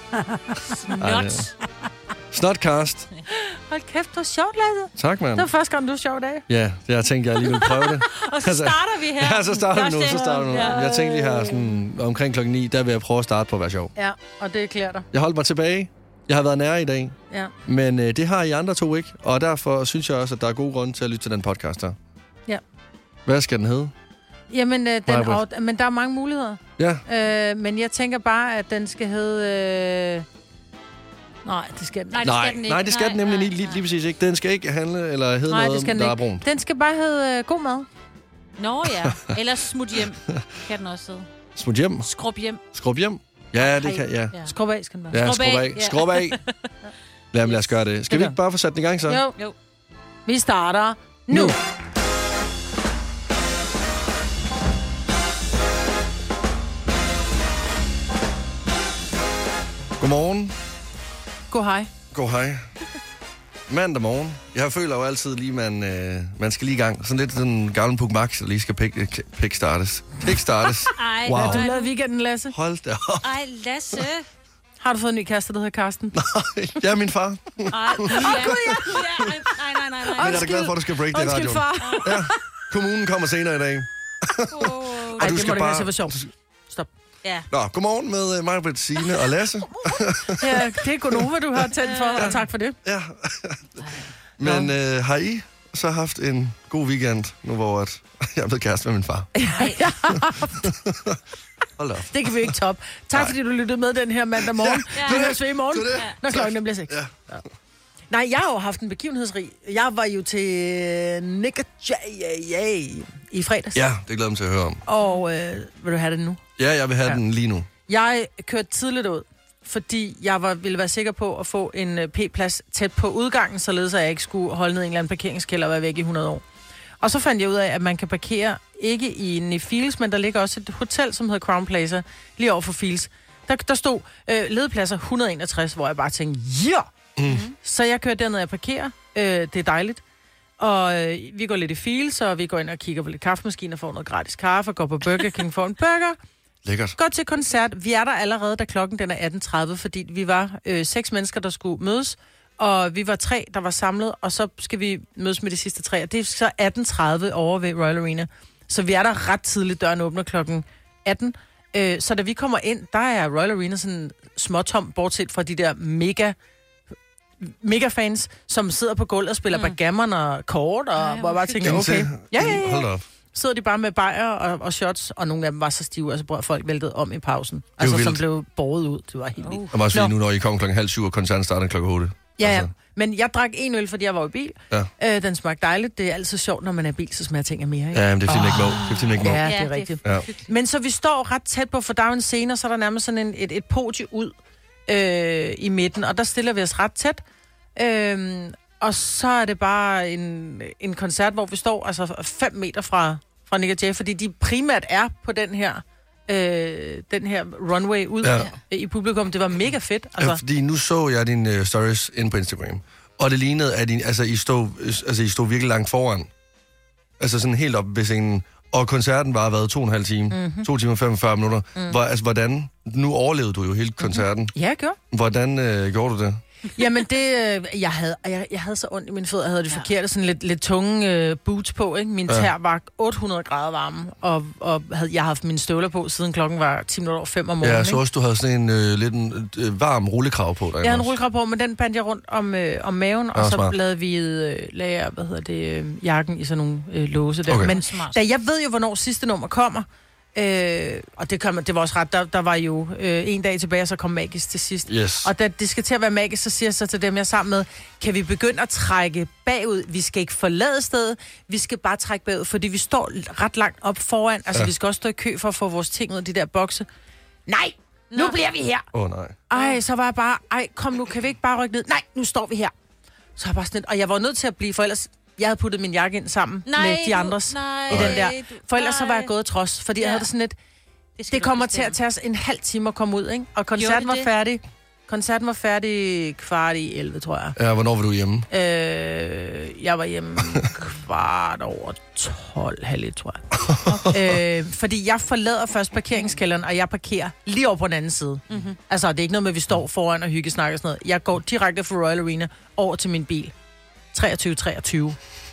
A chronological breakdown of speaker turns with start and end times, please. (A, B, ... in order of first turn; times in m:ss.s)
0:00.2-0:00.7 A
0:00.7-0:01.5 B
0:01.0-0:01.5 C
0:02.3-0:03.1 C
0:03.3-0:06.4 A
0:05.0-0:05.5 C
0:06.5-0:13.9 C
0:08.1-0:11.1 B
0:10.1-0:11.6 A
0:14.0-0:15.1 A
0:15.1-0:22.0 C
0:23.2-0:23.9 C
0:24.5-0:30.2 A
0:25.1-0:25.4 C
0:26.8-0:27.0 C
0:31.4-0:32.2 A
0:32.1-0:33.8 B
0:32.2-0:36.4 C
0:35.5-0:37.9 A
0:38.6-0:41.3 B
0:39.0-0:39.4 C
0:41.6-0:42.1 C
0:42.0-0:42.6 B
0:42.7-0:44.4 C
0:43.6-0:44.5 B
0:44.4-0:45.2 A
0:45.1-0:46.4 C
0:45.2-0:46.4 B
0:47.3-0:49.2 C
0:48.1-0:48.4 A
0:49.0-0:49.4 A
0:50.2-0:51.6 A
1:00.0-1:00.5 C
1:01.5-1:01.9 A
1:02.1-1:02.7 C
1:03.7-1:11.6 C
1:10.9-1:11.9 B
1:11.3-1:12.5 A
1:12.5-1:13.4 C
1:13.2-1:14.3 B
1:14.8-1:16.2 A
1:16.1-1:19.3 C
1:17.7-1:20.5 B
1:18.1-1:19.0 A
1:20.1-1:26.3 C
1:20.2-1:22.4 A
1:21.8-1:22.2 B
1:24.5-1:25.7 B
1:25.2-1:26.2 A
1:27.5-1:31.2 C
1:30.4-1:32.8 A
1:31.8-1:32.4 B
1:32.2-1:33.8 C
1:34.4-1:39.3 C
1:39.4-1:40.7 A
1:39.5-1:40.0 B
1:40.6-1:41.2 C
1:41.8-1:42.5 C
1:42.1-1:47.4 A
1:44.4-1:47.2 C
1:45.0-1:45.3 B
1:48.1-1:53.8 A
1:53.7-1:54.8 C
1:54.8-1:56.4 A
1:56.6-1:57.7 C
1:57.9-2:06.4 A
2:07.0-2:16.9 A
2:17.2-2:17.5 C
2:17.6-2:20.0 A
2:20.6-2:26.2 A
2:26.6-2:27.0 C
2:27.0-2:46.4 A
2:47.4-3:00.1 A
2:51.0-2:51.8 B
2:51.6-2:53.0 C
2:57.8-2:58.2 C
2:59.4-2:59.7 B
2:59.7-3:02.7 C
3:02.4-3:14.3 A
3:07.9-3:09.4 C
3:08.7-3:10.5 B
3:14.9-3:17.2 A
3:17.8-3:30.4 A
3:28.2-3:28.5 C
3:30.2-3:36.3 C
3:37.2-3:44.5 C
3:40.3-3:40.7 A
3:44.0-3:45.0 A
3:45.1-3:46.4 C
3:46.7-3:58.0 A
3:57.6-4:01.1 C
4:00.8-4:26.9 A
4:03.3-4:03.7 C
4:07.5-4:08.2 B
4:14.9-4:15.3 C
4:27.5-4:28.9 A
4:28.1-4:28.4 B
4:28.9-4:29.4 C
4:29.5-4:32.7 A
4:29.5-4:29.8 B
4:33.4-4:40.5 A
4:36.6-4:39.3 B
4:37.9-4:38.2 C
4:40.0-4:40.3 B
4:41.2-4:42.0 B
4:41.3-4:47.6 A
4:43.8-4:44.3 B
4:47.6-4:48.5 C
4:48.5-4:53.4 A
4:53.6-4:54.0 C
4:54.0-5:03.5 A
4:58.5-4:58.8 B
5:04.1-5:05.2 A